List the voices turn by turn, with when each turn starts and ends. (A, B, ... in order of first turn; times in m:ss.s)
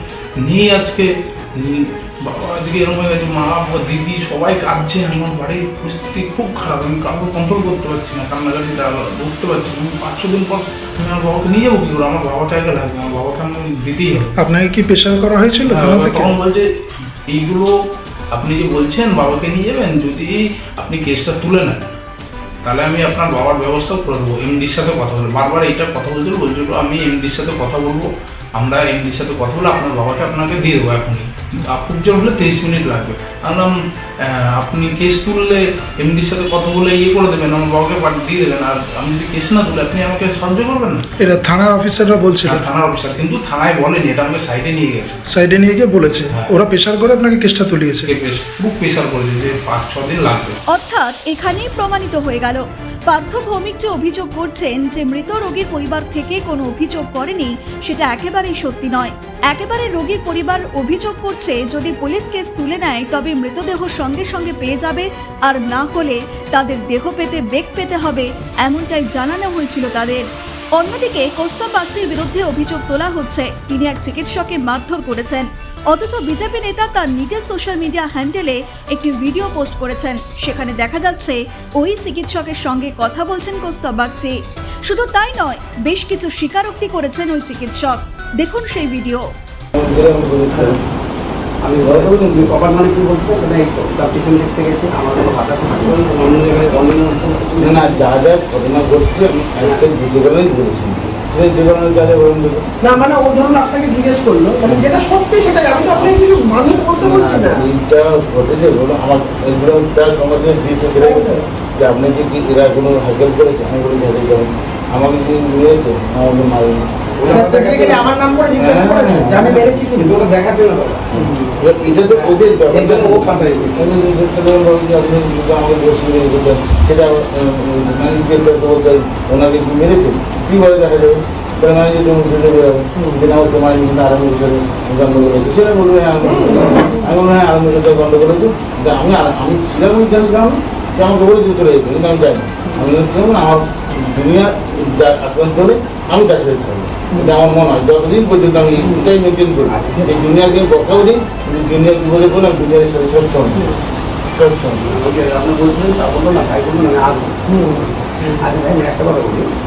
0:00.4-0:14.3 A
0:14.4-0:16.3 B
0:15.6-0:17.7 A
0:18.3-0:21.9 A
0:22.6-0:41.0 A
0:41.2-0:42.6 B
0:42.4-0:45.2 A
0:45.3-0:48.1 B
0:46.3-0:46.6 A
0:48.0-0:50.6 A
0:50.7-1:10.2 C
1:10.8-1:24.3 C
1:24.8-1:29.2 C
1:29.7-1:30.8 D
1:30.5-1:30.8 E
1:31.6-1:38.0 E
1:31.8-1:32.5 D
1:37.6-1:42.6 D
1:39.5-1:39.9 E
1:42.8-1:47.6 F
1:44.6-1:44.9 D
1:45.9-1:46.2 D
1:46.9-1:59.8 D
1:51.0-1:51.4 F
1:57.2-1:58.1 E
1:57.3-2:00.1 F
1:59.5-2:01.3 E
2:01.1-2:33.7 D
2:01.9-2:04.0 E
2:16.2-2:16.8 F
2:28.8-2:29.1 E
2:29.6-2:31.0 E
2:34.3-2:34.8 D
2:34.8-2:39.5 E
2:37.5-2:38.4 F